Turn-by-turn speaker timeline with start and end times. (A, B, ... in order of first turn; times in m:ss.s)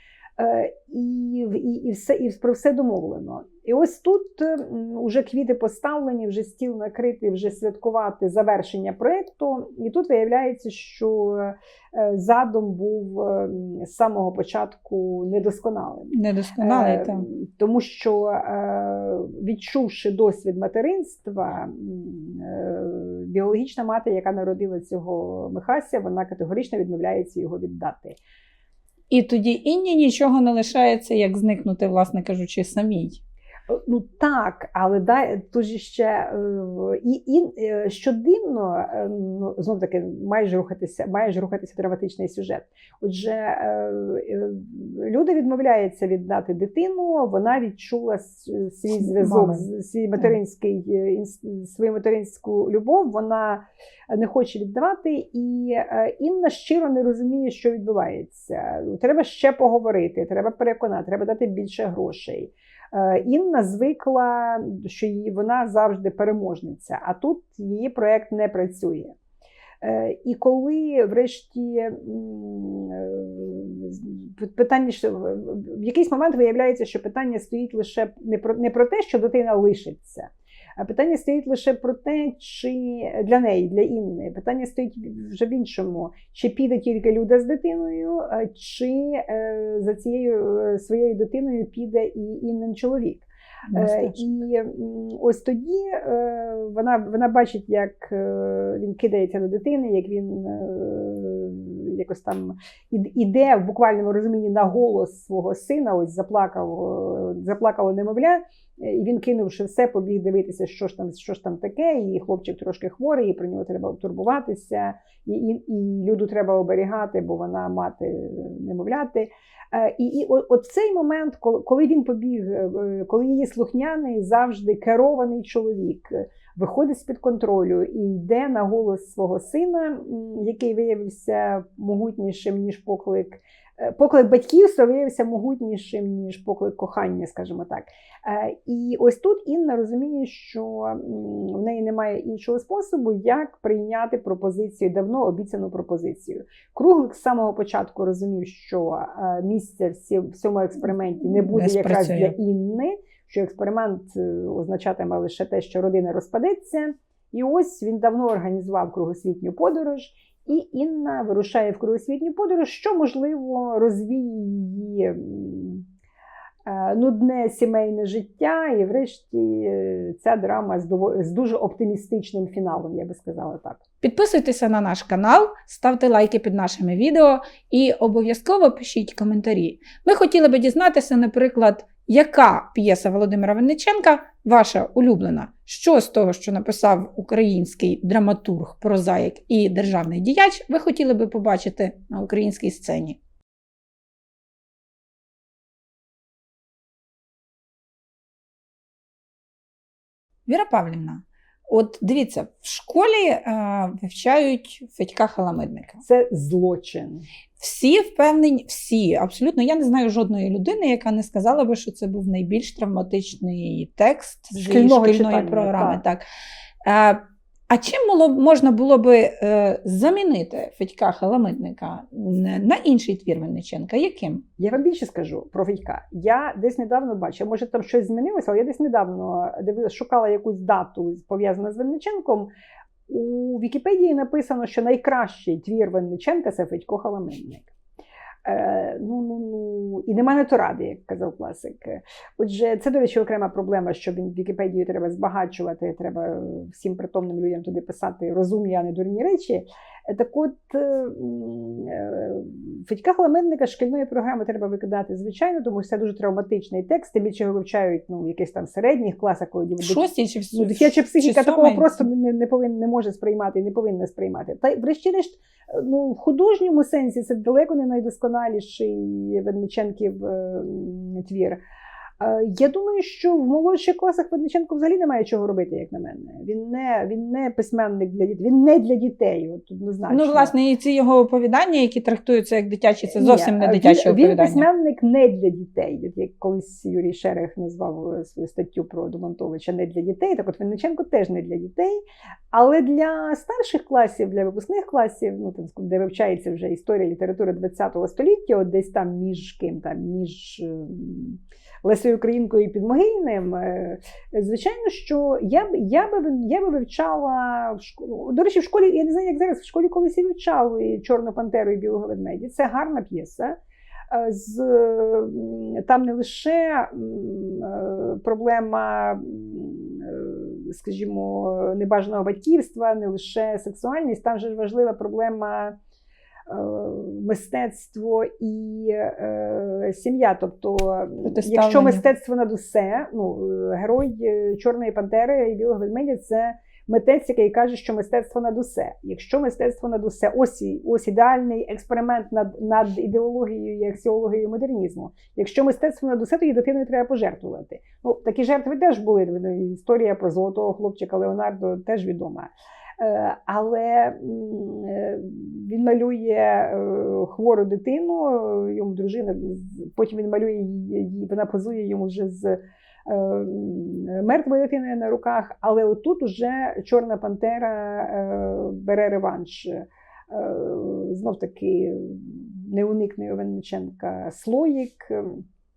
0:00.4-0:28.2 A
0:16.1-0:17.2 B
0:29.1-0:33.2 B
0:33.7-1:09.1 A
0:48.9-0:49.6 B
1:09.8-2:45.8 A
1:33.7-1:34.2 B
2:31.5-2:32.3 B
2:46.6-2:53.8 A
2:54.0-3:13.2 B
3:20.4-3:26.0 B
3:26.0-3:27.2 A
3:27.6-3:36.2 B
3:34.5-3:36.0 A
3:36.8-3:44.4 B
3:44.6-3:52.5 A
3:53.1-3:57.7 A
3:58.4-4:31.6 A
4:19.8-4:21.9 B
4:32.2-4:40.5 A
4:40.1-4:44.7 B
4:43.1-5:13.6 A
5:14.1-5:25.8 A
5:26.5-6:15.4 A
5:31.2-5:32.0 B